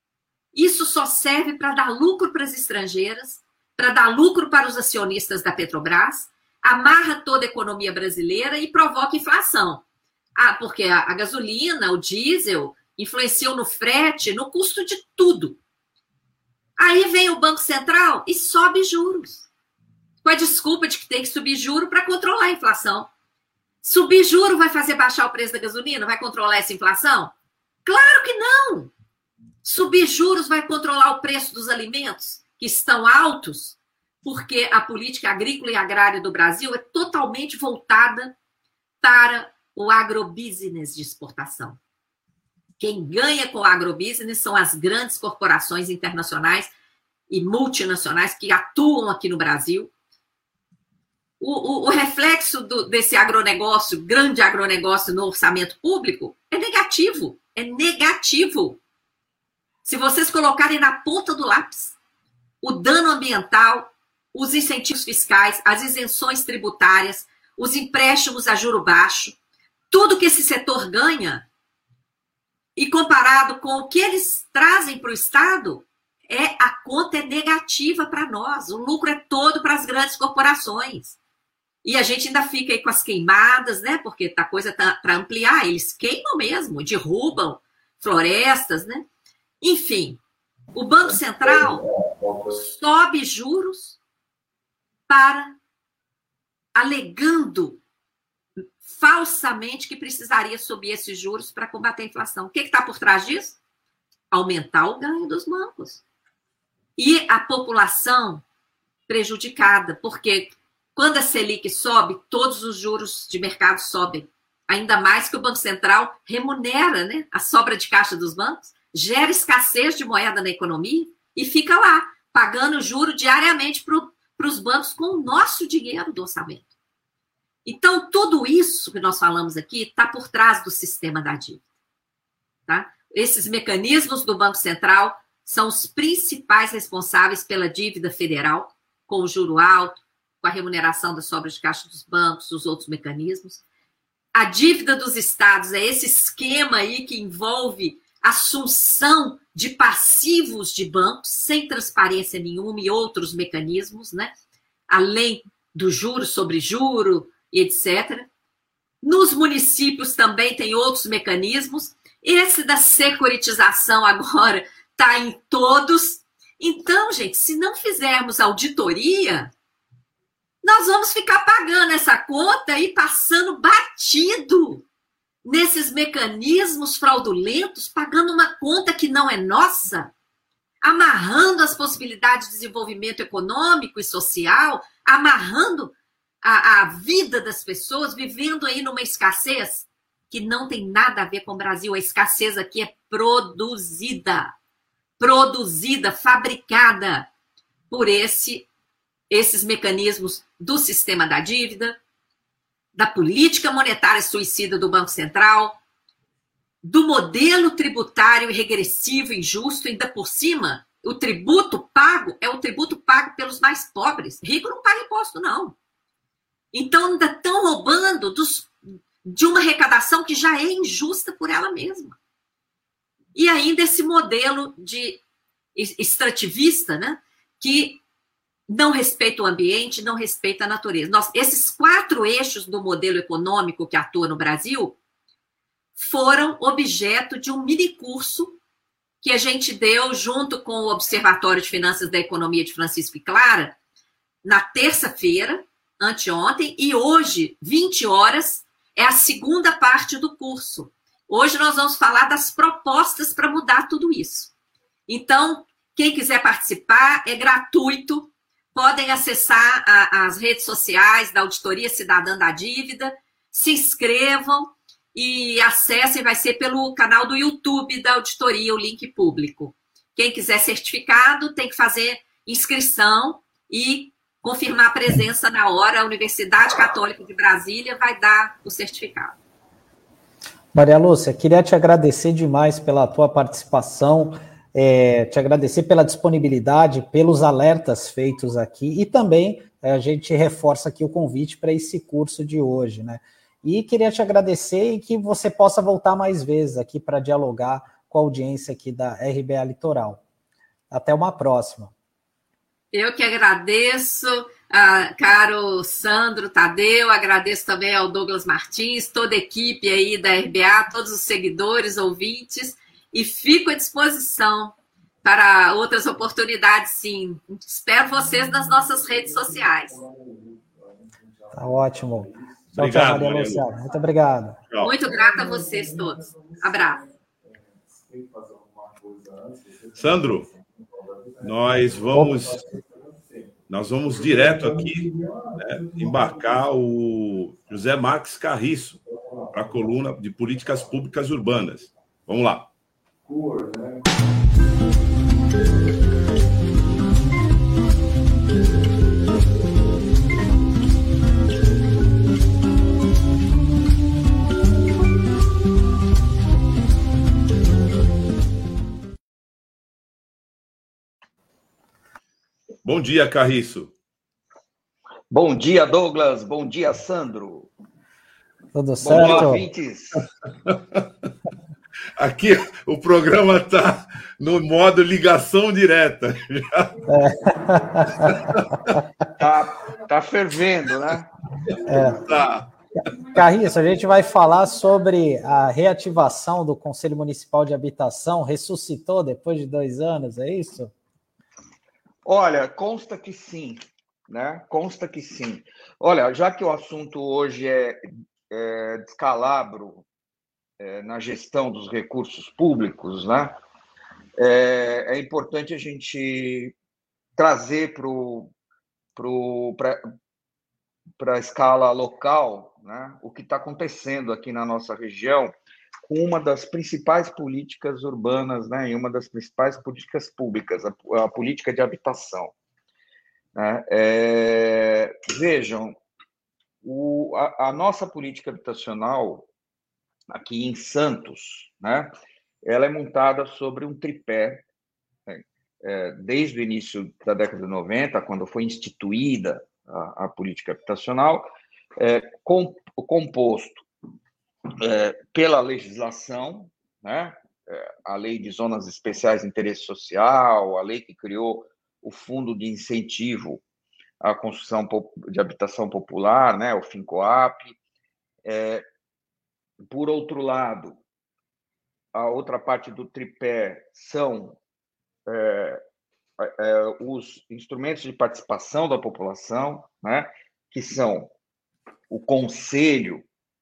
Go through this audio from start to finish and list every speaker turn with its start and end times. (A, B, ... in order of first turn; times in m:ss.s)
0:00.5-0:09.8 A
0:10.4-0:15.6 A
0:16.8-0:19.4 A
0:20.2-0:23.1 A
0:23.8-0:27.3 A
0:27.8-0:28.9 A
0:29.6-0:38.3 A
0:39.0-0:41.8 A
0:42.8-0:46.7 A
0:47.3-0:49.9 A
0:51.4-0:58.8 A
0:59.8-1:02.0 A
1:02.6-1:09.4 A
1:09.9-1:11.4 A
1:12.8-1:21.2 A
1:21.8-1:29.0 A
1:29.6-1:30.2 A
1:30.7-1:31.9 A
1:32.5-1:34.0 A
1:35.1-1:35.5 A
1:36.7-1:37.8 A
1:38.8-1:43.6 A
1:44.3-1:46.0 A
1:47.0-1:48.4 A
1:49.1-2:06.7 A
2:07.6-2:11.6 A
2:12.7-2:23.6 A
2:24.3-2:34.3 A
2:34.9-2:38.3 A
2:39.0-2:49.5 A
2:50.6-2:54.8 A
2:55.4-3:00.1 A
3:00.8-3:14.5 A
3:15.2-3:17.3 A
3:17.9-3:18.7 A
3:19.3-3:22.0 A
3:22.9-3:25.8 A
3:26.8-3:35.8 A
3:36.7-3:42.2 A
3:43.3-3:45.2 A
3:45.7-3:48.0 A
3:48.7-3:55.0 A
3:56.0-3:58.6 A
3:59.2-4:03.8 A
4:04.4-4:14.5 A
4:15.1-4:39.4 A
4:40.7-5:00.2 B
5:00.9-5:01.9 B
5:02.9-5:20.0 A
5:21.5-5:24.6 B
5:22.7-5:23.6 C
5:24.7-5:25.0 C
5:24.8-5:27.0 A
5:29.9-5:30.5 C
5:31.4-5:32.6 C
5:32.1-5:32.5 B
5:33.7-5:39.0 C
5:39.5-5:42.7 C
6:02.8-6:03.9 C
6:05.3-6:07.7 D
6:08.7-6:09.6 B
6:09.0-6:10.2 D
6:09.1-6:09.4 C
6:10.7-6:11.0 C
6:12.2-6:17.0 C
6:17.1-6:18.9 B
6:18.2-6:18.6 C
6:19.4-6:21.3 D
6:21.7-6:22.6 C
6:21.8-6:22.2 B
6:23.3-6:30.9 B
6:32.2-6:33.8 D
6:34.3-6:40.0 D
6:40.8-6:43.6 D
6:44.4-6:46.7 D
6:47.4-6:48.5 D
6:49.2-6:50.0 D
6:51.2-6:55.5 D
6:56.1-7:02.5 D
7:03.6-7:06.0 D
7:06.8-7:09.5 D
7:10.3-7:12.1 D
7:12.6-7:14.7 D
7:15.3-7:23.8 D
7:24.8-7:33.6 D
7:34.2-7:37.8 D
7:38.4-7:38.8 D
7:39.9-7:41.0 D
7:42.1-7:44.6 D
7:45.3-7:45.8 D
7:46.4-7:51.3 D
7:52.1-7:53.2 D